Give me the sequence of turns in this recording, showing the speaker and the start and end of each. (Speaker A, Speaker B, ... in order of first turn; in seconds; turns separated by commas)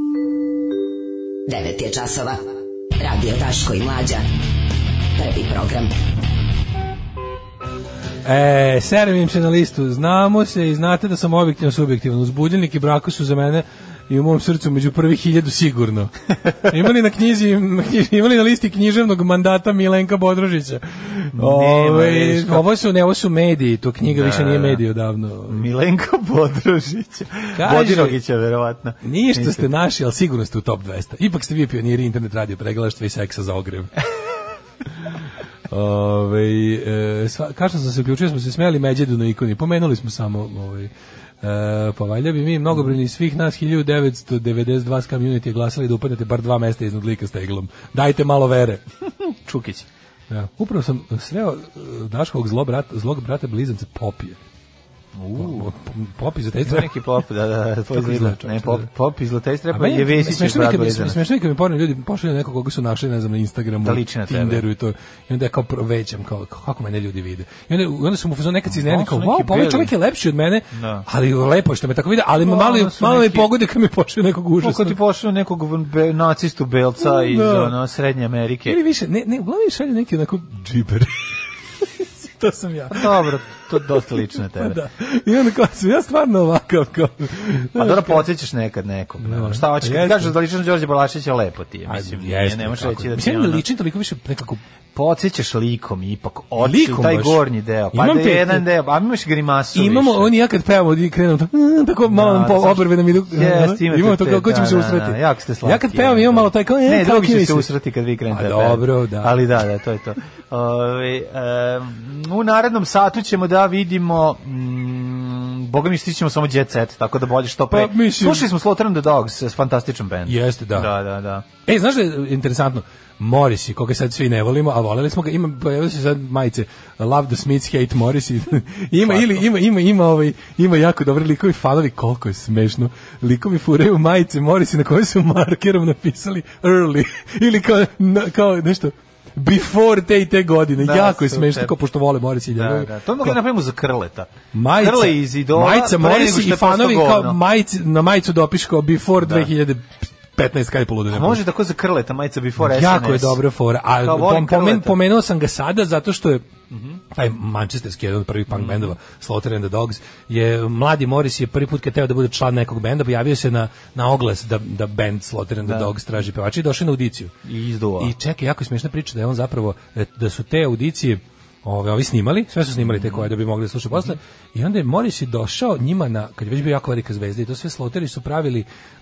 Speaker A: 1.5-2.4, Speaker A: 3.0-4.2, Speaker A: 5.2-5.9, Speaker B: 8.2-25.6, Speaker C: 21.3-22.7, Speaker C: 24.0-24.8, Speaker C: 25.5-29.7, Speaker B: 27.6-28.2, Speaker B: 29.0-33.9, Speaker B: 35.7-40.9, Speaker B: 41.4-48.8, Speaker C: 49.2-49.9, Speaker B: 50.3-54.4, Speaker C: 55.1-55.7, Speaker B: 55.4-56.9, Speaker C: 56.6-61.2, Speaker B: 57.9-58.9, Speaker B: 59.7-75.0, Speaker C: 63.8-64.6, Speaker C: 68.7-69.9, Speaker C: 70.7-71.0, Speaker C: 72.4-73.5, Speaker C: 74.6-78.8, Speaker B: 77.0-77.8, Speaker B: 78.7-81.3, Speaker B: 81.8-88.2, Speaker C: 82.9-84.8, Speaker C: 87.7-93.6, Speaker B: 89.2-90.3, Speaker B: 91.9-94.6, Speaker C: 94.9-100.3, Speaker B: 96.6-98.7, Speaker B: 99.7-107.7, Speaker C: 102.0-121.4, Speaker B: 108.3-109.3, Speaker B: 117.7-118.5, Speaker B: 120.3-120.9, Speaker B: 121.7-143.4, Speaker C: 129.0-129.4, Speaker C: 140.8-141.7, Speaker C: 142.5-147.4, Speaker B: 144.5-151.4, Speaker C: 149.2-149.5, Speaker C: 151.1-153.4, Speaker B: 152.6-156.4, Speaker C: 154.0-155.0, Speaker C: 156.7-157.0, Speaker B: 157.1-167.3, Speaker C: 158.5-158.9, Speaker C: 165.6-166.0, Speaker C: 167.4-168.1, Speaker B: 168.0-178.7, Speaker C: 172.7-173.3